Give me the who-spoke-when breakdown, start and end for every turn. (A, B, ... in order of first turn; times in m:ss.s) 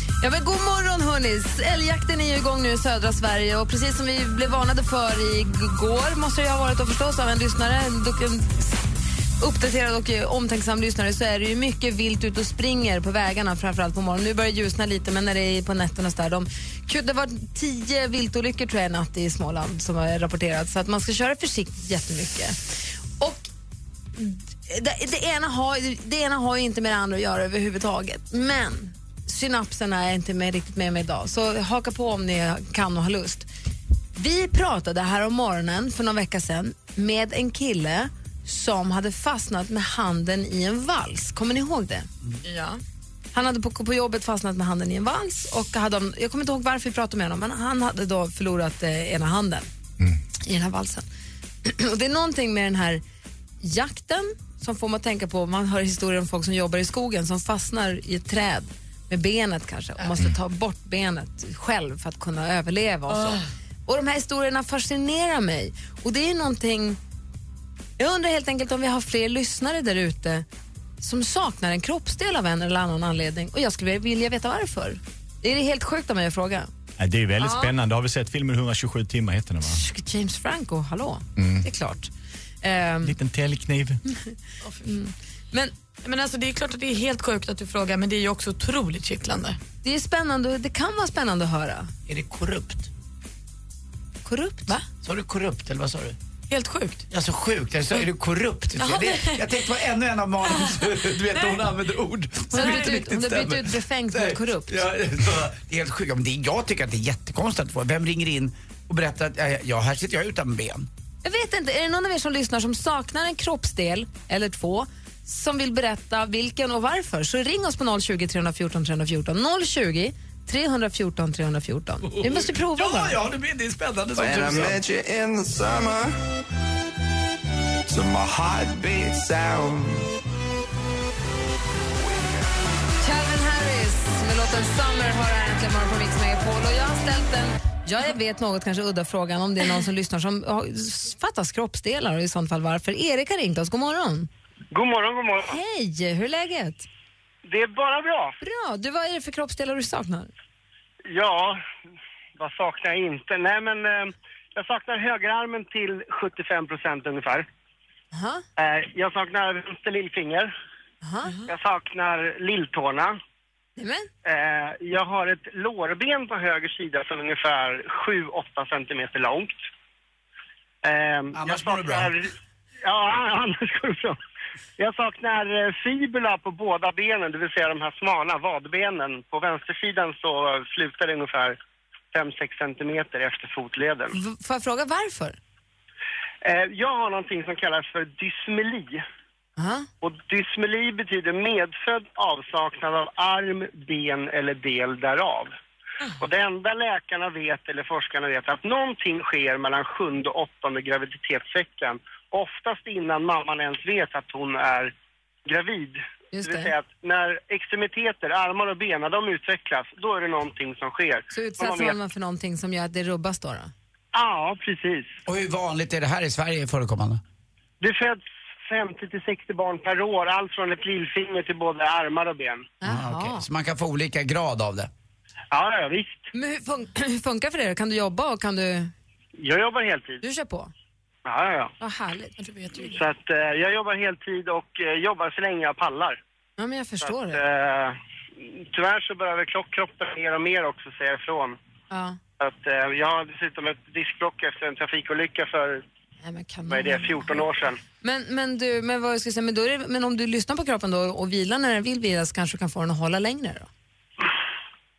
0:00.2-0:08.8 A
0:09.4-0:22.6 A
0:23.2-0:23.5 A
0:24.2-0:33.5 A
0:34.2-0:42.1 A
0:42.4-0:42.8 B
0:43.3-0:49.7 A
0:50.4-0:51.1 A
0:51.6-0:53.0 A
0:53.6-1:07.0 A
1:08.0-1:10.4 A
1:11.0-1:16.7 A
1:17.0-1:19.8 C
1:19.7-1:22.1 A
1:21.4-1:21.6 C
1:22.6-1:23.2 A
1:23.0-1:24.0 C
1:24.2-1:25.7 A
1:24.6-1:24.9 B
1:26.0-1:29.6 B
1:29.8-1:31.9 A
1:32.1-1:32.9 D
1:34.2-1:34.8 A
1:35.0-1:36.2 D
1:36.5-1:37.0 B
1:37.1-1:50.9 D
1:38.8-1:39.5 B
1:40.4-1:41.6 B
1:42.5-1:44.8 A
1:42.5-1:43.0 B
1:51.2-2:03.2 A
2:02.0-2:04.8 D
2:04.2-2:06.1 E
2:07.9-2:10.1 E
2:11.9-2:12.3 E
2:13.0-2:24.3 A
2:24.7-2:25.6 F
2:25.5-2:26.9 A
2:27.4-2:28.4 F
2:28.4-2:30.3 A
2:31.1-2:31.6 F
2:32.4-2:37.5 F
2:38.1-2:38.4 A
2:38.6-2:40.5 F
2:41.0-2:41.3 A
2:41.5-2:43.2 F
2:43.8-2:44.1 A
2:44.2-2:49.6 F
2:50.8-2:52.3 F
2:51.3-2:52.1 D
2:52.8-2:54.2 F
2:54.8-3:01.6 F
3:02.1-3:04.1 F
3:04.1-3:05.4 A
3:06.4-3:09.0 F
3:09.6-3:09.9 A
3:10.0-3:15.5 F
3:16.2-3:24.9 F
3:25.5-3:32.0 F
3:26.3-3:26.7 A
3:31.3-3:33.7 A
3:34.1-3:35.2 F
3:35.2-3:37.2 D
3:37.8-3:42.7 F
3:42.8-3:43.4 A
3:42.8-3:44.9 D
3:45.5-3:46.3 F
3:46.3-3:48.9 A
3:49.4-3:50.2 F
3:50.2-3:50.7 A
3:51.2-3:51.7 F
3:51.8-3:52.4 A
3:52.4-3:53.0 B
3:52.9-3:56.2 F
3:56.6-3:57.4 A
3:57.0-3:58.0 F
3:58.6-4:01.6 F
4:01.9-4:02.2 A
4:02.4-4:05.8 F
4:06.2-4:07.5 A
4:06.7-4:07.8 F
4:08.0-4:13.7 A